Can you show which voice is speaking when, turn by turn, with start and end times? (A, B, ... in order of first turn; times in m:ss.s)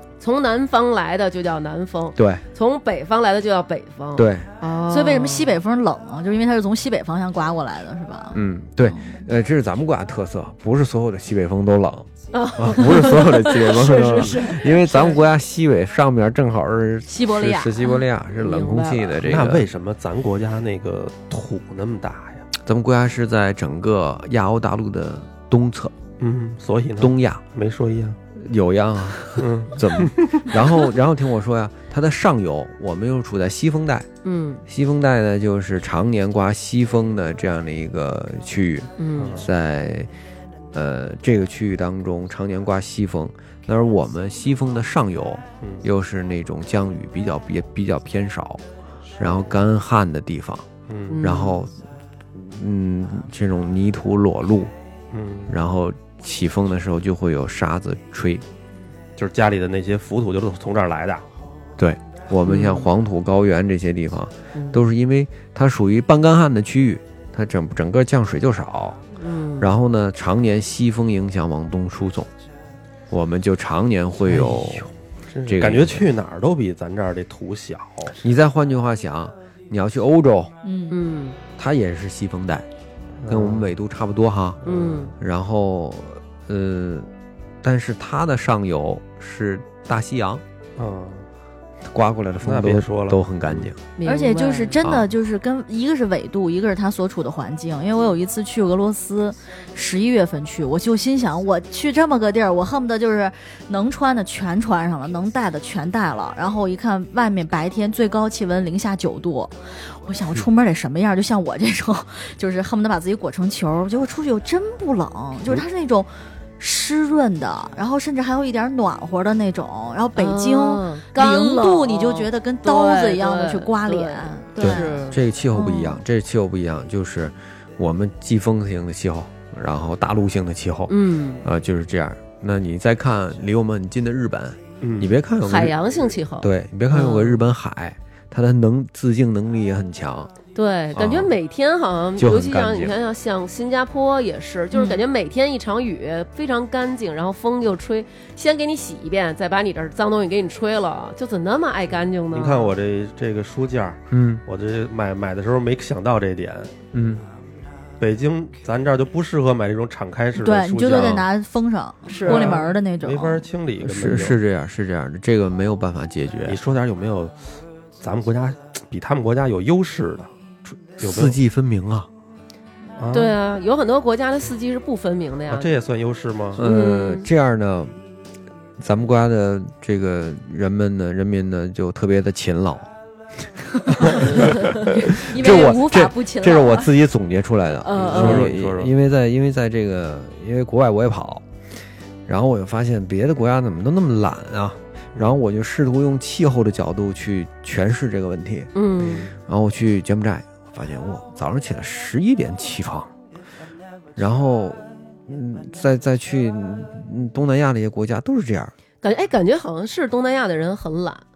0:00.2-0:05.6 A
0:02.2-0:02.4 B
0:04.1-0:04.5 B
0:04.8-0:09.2 C
0:08.3-0:19.6 B
0:12.3-0:15.2 A
0:14.6-0:15.0 C
0:17.1-0:18.0 C
0:18.4-0:19.1 A
0:19.2-0:22.5 D
0:22.6-0:25.9 B
0:26.2-0:28.2 D
0:27.0-0:27.4 B
0:28.4-0:34.1 B
0:29.4-0:30.6 D
0:34.2-0:34.6 A
0:34.7-0:40.1 B
0:39.0-0:39.4 A
0:39.2-0:39.5 D
0:40.7-0:48.6 B
0:49.2-0:50.7 B
0:50.9-0:51.2 D
0:51.1-0:51.6 A
0:51.2-0:51.7 B
0:52.3-0:54.7 B
0:55.1-0:55.5 D
0:55.5-0:58.4 B
0:59.2-1:01.2 D
1:01.8-1:09.0 B
1:02.4-1:02.9 A
1:04.5-1:04.8 A
1:09.2-1:09.7 A
1:09.6-1:12.3 B
1:13.1-1:14.9 B
1:14.3-1:18.2 D
1:15.4-1:16.0 B
1:18.2-1:20.5 B
1:20.6-1:21.0 C
1:20.9-1:21.4 A
1:21.6-1:22.7 B
1:23.2-1:23.7 D
1:23.3-1:24.6 B
1:24.6-1:25.1 D
1:24.6-1:25.1 A
1:25.1-1:27.1 B
1:27.6-1:30.4 B
1:30.8-1:31.3 D
1:31.9-1:33.8 B
1:32.4-1:33.7 D
1:34.0-1:34.8 A
1:34.0-2:05.0 C
1:34.8-1:35.1 B
2:00.2-2:05.2 A
2:04.6-2:15.8 B
2:05.5-2:06.0 C
2:10.9-2:11.4 A
2:14.8-2:15.1 D
2:15.4-2:17.4 A
2:16.4-2:20.3 B
2:20.5-2:32.7 A
2:20.9-2:21.3 B
2:22.2-2:23.0 B
2:24.7-2:25.0 C
2:32.3-2:36.7 D
2:34.1-2:34.4 B
2:36.9-2:37.2 B
2:38.0-2:41.3 D
2:40.4-2:43.4 C
2:42.0-2:42.6 A
2:42.2-2:44.4 D
2:43.8-2:46.6 B
2:46.4-2:50.3 D
2:51.0-2:51.4 D
2:51.0-2:52.1 B
2:53.0-2:53.4 D
2:53.1-2:55.7 A
2:55.5-2:56.6 D
2:56.6-2:57.9 B
2:56.6-2:57.3 A
2:58.8-3:02.9 B
3:03.4-3:11.4 B
3:04.0-3:06.9 C
3:07.8-3:08.5 A
3:08.0-3:08.9 D
3:12.3-3:18.7 B
3:18.7-3:19.3 A
3:19.3-3:23.1 B
3:24.2-3:28.7 B
3:29.0-3:31.2 A